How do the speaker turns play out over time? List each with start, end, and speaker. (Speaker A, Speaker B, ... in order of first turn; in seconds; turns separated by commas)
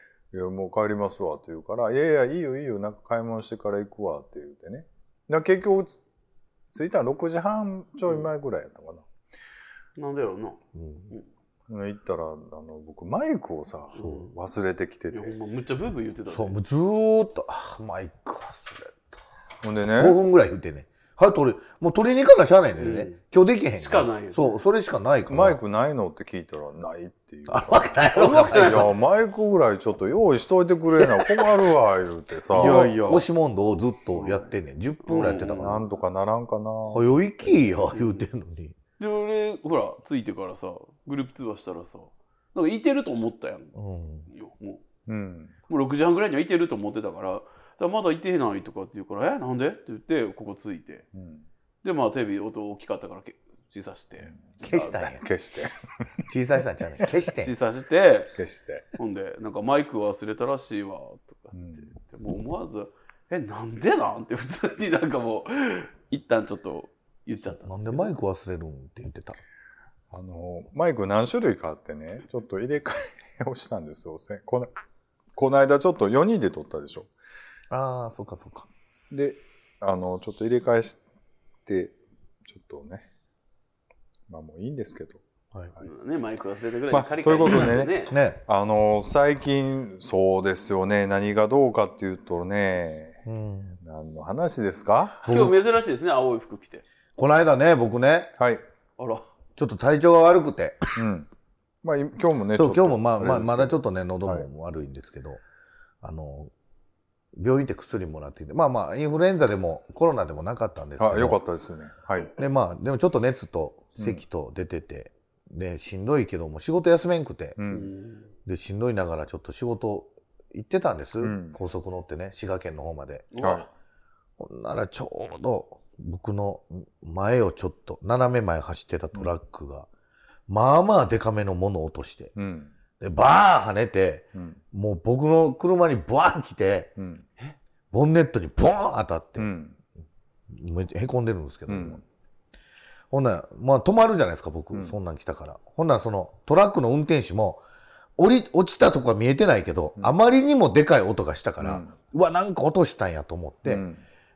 Speaker A: 0.3-6.0, Speaker A: 6.7-9.0, Speaker B: 10.0-10.6, Speaker C: 10.7-11.1, Speaker A: 11.7-15.3, Speaker B: 13.9-14.3, Speaker C: 14.0-14.2, Speaker B: 15.1-16.6, Speaker C: 16.3-19.2, Speaker A: 19.6-20.2, Speaker C: 20.0-25.6, Speaker B: 22.8-23.2, Speaker B: 23.7-24.6, Speaker A: 25.3-32.9, Speaker C: 27.5-28.9, Speaker B: 28.1-28.9, Speaker C: 31.0-31.3, Speaker C: 32.5-35.9, Speaker B: 32.5-33.2, Speaker B: 34.2-34.5, Speaker B: 35.1-35.8, Speaker A: 35.5-37.1, Speaker C: 36.8-38.8, Speaker B: 37.9-38.2, Speaker B: 39.0-43.8, Speaker C: 43.7-44.3, Speaker B: 44.3-44.8, Speaker A: 45.1-45.5, Speaker B: 45.7-51.0, Speaker A: 51.1-51.4, Speaker B: 51.8-55.1, Speaker C: 54.6-55.2, Speaker A: 55.2-56.3, Speaker C: 56.3-57.5, Speaker B: 57.4-58.3, Speaker A: 58.4-58.9, Speaker B: 59.0-68.1, Speaker A: 61.5-61.9, Speaker C: 67.6-69.4, Speaker A: 70.1-74.7, Speaker A: 75.3-77.1, Speaker C: 77.7-78.7, Speaker A: 79.1-81.0, Speaker A: 81.7-81.9, Speaker A: 82.5-83.1, Speaker A: 84.3-85.2, Speaker B: 85.8-88.1, Speaker A: 86.9-93.2, Speaker C: 88.1-88.4, Speaker C: 93.2-93.8, Speaker A: 93.8-95.3, Speaker C: 95.2-95.5, Speaker B: 95.2-96.8, Speaker C: 97.2-98.3, Speaker B: 99.0-99.2, Speaker C: 99.5-100.9, Speaker A: 101.0-101.3, Speaker A: 101.8-104.5, Speaker C: 102.5-105.4, Speaker C: 106.0-106.5, Speaker C: 107.3-111.4, Speaker A: 111.0-112.3, Speaker C: 112.3-117.6, Speaker A: 117.6-117.9, Speaker B: 117.7-118.3, Speaker C: 118.4-123.3, Speaker A: 121.2-121.6, Speaker B: 123.3-123.7, Speaker A: 123.4-123.7, Speaker C: 124.4-129.9, Speaker C: 130.5-132.3, Speaker A: 132.3-132.7, Speaker C: 133.0-136.9, Speaker A: 134.3-134.6, Speaker A: 137.0-137.2, Speaker C: 137.9-139.5, Speaker A: 139.4-139.8, Speaker C: 140.5-142.0, Speaker A: 141.7-142.0, Speaker C: 143.1-147.6, Speaker C: 148.2-153.8, Speaker A: 151.6-151.9, Speaker A: 153.7-154.0